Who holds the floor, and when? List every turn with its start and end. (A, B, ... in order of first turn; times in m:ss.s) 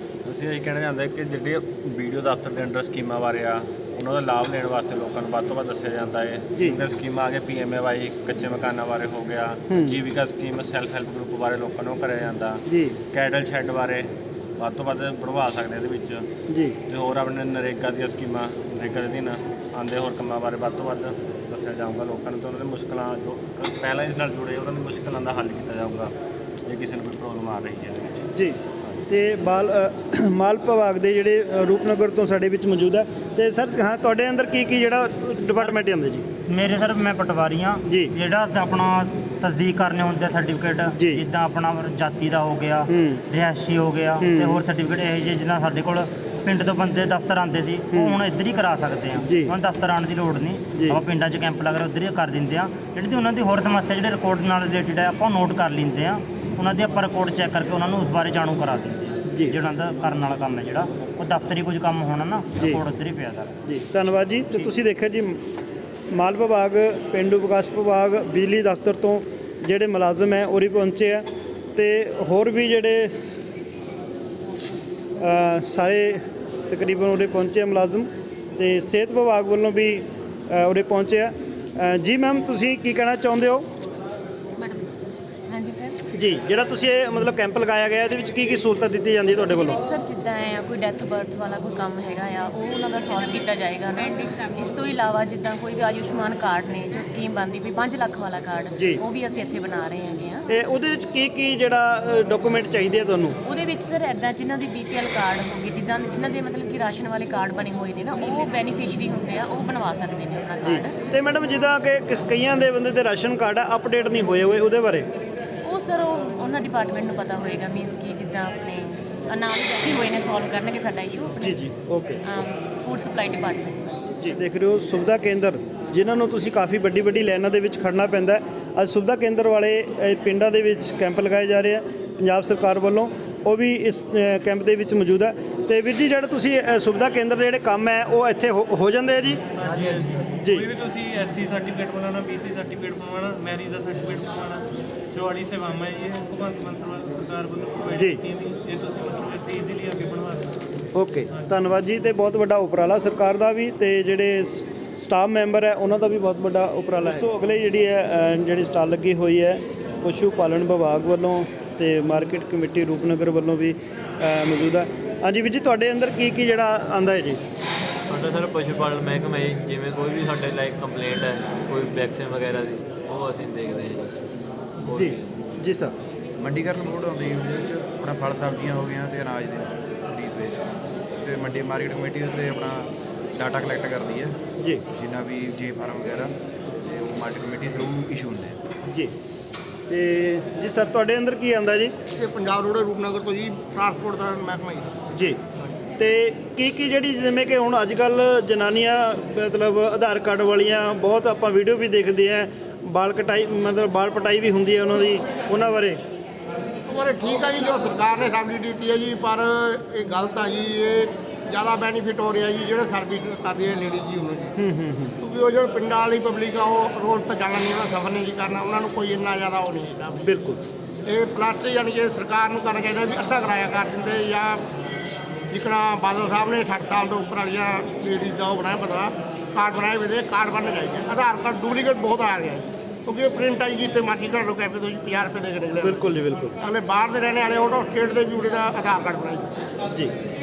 0:00.2-0:16.2 A
0:06.5-0:06.8 B
0:09.7-0:10.0 B
0:12.7-0:13.0 B
0:16.5-0:16.8 B
0:16.9-0:26.1 A
0:26.6-0:28.2 A
0:28.3-0:36.2 B
0:36.5-1:03.5 C
0:37.8-0:38.1 B
0:41.0-0:41.2 B
0:42.9-0:43.2 B
0:44.2-0:44.6 B
0:44.4-0:44.9 A
0:46.5-0:47.0 A
0:47.9-0:48.2 A
0:49.2-0:49.5 B
0:50.9-0:51.1 A
0:56.6-0:57.2 A
0:59.3-0:59.5 B
0:59.5-1:00.4 A
1:00.9-1:03.4 A
1:03.7-1:05.4 B
1:06.1-1:11.2 B
1:11.8-1:13.4 B
1:15.2-1:23.6 B
1:24.6-1:26.0 D
1:26.1-1:29.8 B
1:29.5-1:40.5 D
1:38.8-1:39.0 B
1:40.5-1:43.4 B
1:43.4-1:50.9 D
1:50.6-1:55.1 B
1:55.6-2:01.6 D
2:01.4-2:02.2 B
2:02.2-2:04.4 D
2:04.2-2:19.4 B
2:19.6-2:30.5 E
2:20.4-2:20.7 B
2:27.9-2:28.2 B
2:30.9-2:47.4 B
2:48.1-2:54.1 F
2:54.8-2:55.2 F
2:54.9-2:55.9 B
2:56.4-3:00.7 G
3:01.2-3:04.4 G
3:04.9-3:08.6 G
3:09.9-3:11.9 B
3:12.2-3:14.9 H
3:15.1-3:15.4 B
3:16.0-3:26.0 B
3:26.9-3:34.5 H
3:34.6-3:35.1 B
3:35.2-3:40.3 H
3:40.2-3:40.6 B
3:41.1-3:44.6 H
3:45.5-3:56.1 H
3:55.8-3:56.5 B
3:56.6-3:59.4 H